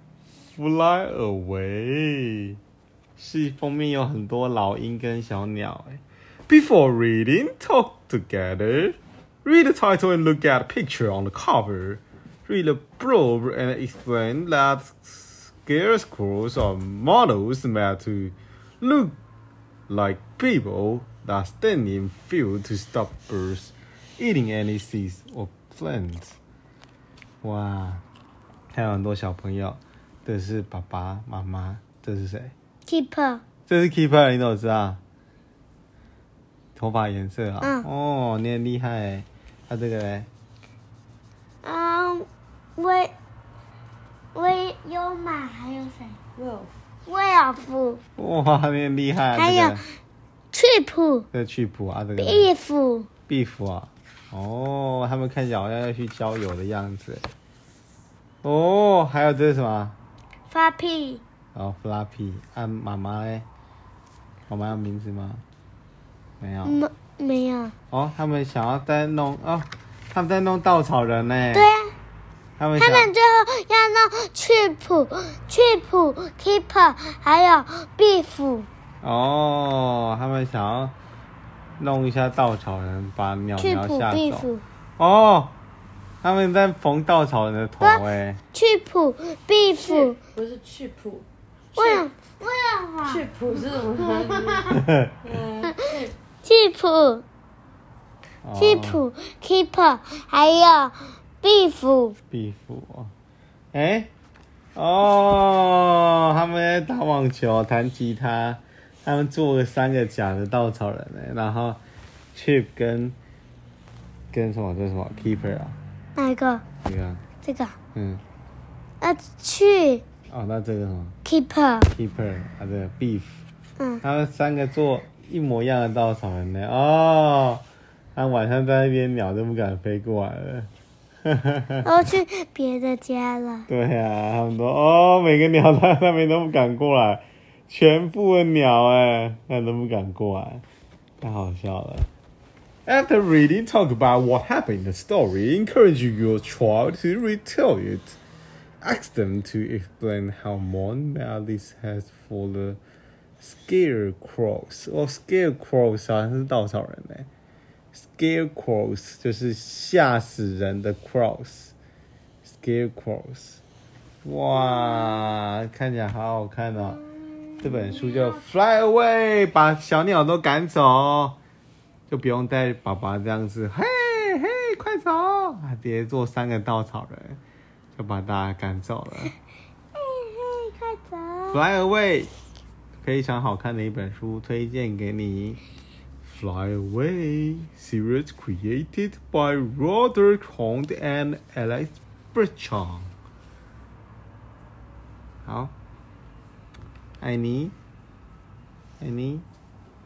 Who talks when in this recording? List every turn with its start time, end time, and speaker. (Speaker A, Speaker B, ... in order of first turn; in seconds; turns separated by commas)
Speaker A: 0.5-2.6, Speaker A: 3.2-19.2, Speaker A: 19.9-26.4, Speaker A: 27.4-28.0, Speaker A: 28.7-32.5, Speaker B: 32.9-33.4, Speaker A: 33.7-35.0, Speaker A: 36.8-40.3, Speaker B: 37.6-37.9, Speaker B: 41.6-43.1, Speaker B: 44.3-46.2, Speaker C: 46.4-46.7, Speaker B: 47.0-48.0, Speaker A: 48.2-49.8, Speaker B: 49.3-49.8, Speaker B: 50.5-51.3, Speaker A: 51.3-52.5, Speaker B: 52.2-53.1, Speaker A: 53.3-57.3, Speaker A: 58.4-60.0, Speaker B: 60.5-61.2, Speaker A: 61.5-63.5, Speaker A: 64.5-65.4, Speaker A: 66.4-66.8, Speaker B: 66.6-67.7, Speaker A: 67.9-71.7, Speaker B: 71.5-71.9, Speaker A: 72.6-73.1, Speaker B: 72.8-78.7, Speaker A: 79.0-80.9, Speaker A: 81.8-84.5, Speaker B: 83.6-84.6, Speaker A: 85.0-85.5, Speaker A: 86.2-88.4, Speaker B: 87.8-90.2, Speaker C: 89.7-92.1, Speaker B: 91.7-93.2, Speaker C: 93.0-96.1, Speaker A: 94.7-95.1, Speaker B: 95.6-97.2, Speaker A: 98.4-99.0, Speaker B: 98.6-102.2, Speaker A: 102.3-103.1, Speaker A: 103.7-104.1, Speaker A: 104.7-111.8, Speaker A: 112.3-113.2, Speaker A: 114.3-115.8, Speaker B: 116.2-116.6, Speaker A: 116.8-117.2, Speaker B: 117.4-117.8, Speaker A: 117.9-118.2, Speaker B: 119.0-120.0, Speaker A: 120.3-121.2, Speaker B: 121.2-121.9, Speaker A: 121.9-123.4, Speaker A: 124.0-127.6, Speaker A: 128.1-130.7, Speaker A: 131.2-131.9, Speaker B: 131.8-133.7, Speaker A: 133.7-140.6, Speaker A: 141.2-142.1, Speaker A: 142.8-148.2, Speaker A: 148.8-152.8, Speaker A: 153.4-157.3, Speaker A: 157.9-161.7, Speaker A: 162.4-163.6, Speaker A: 164.2-167.0, Speaker A: 167.6-171.4, Speaker A: 172.1-177.4, Speaker A: 177.9-179.3, Speaker B: 179.9-181.6, Speaker A: 181.5-182.3, Speaker A: 183.0-185.6, Speaker A: 186.2-193.1, Speaker A: 195.4-195.7, Speaker A: 197.2-197.7, Speaker A: 199.0-199.4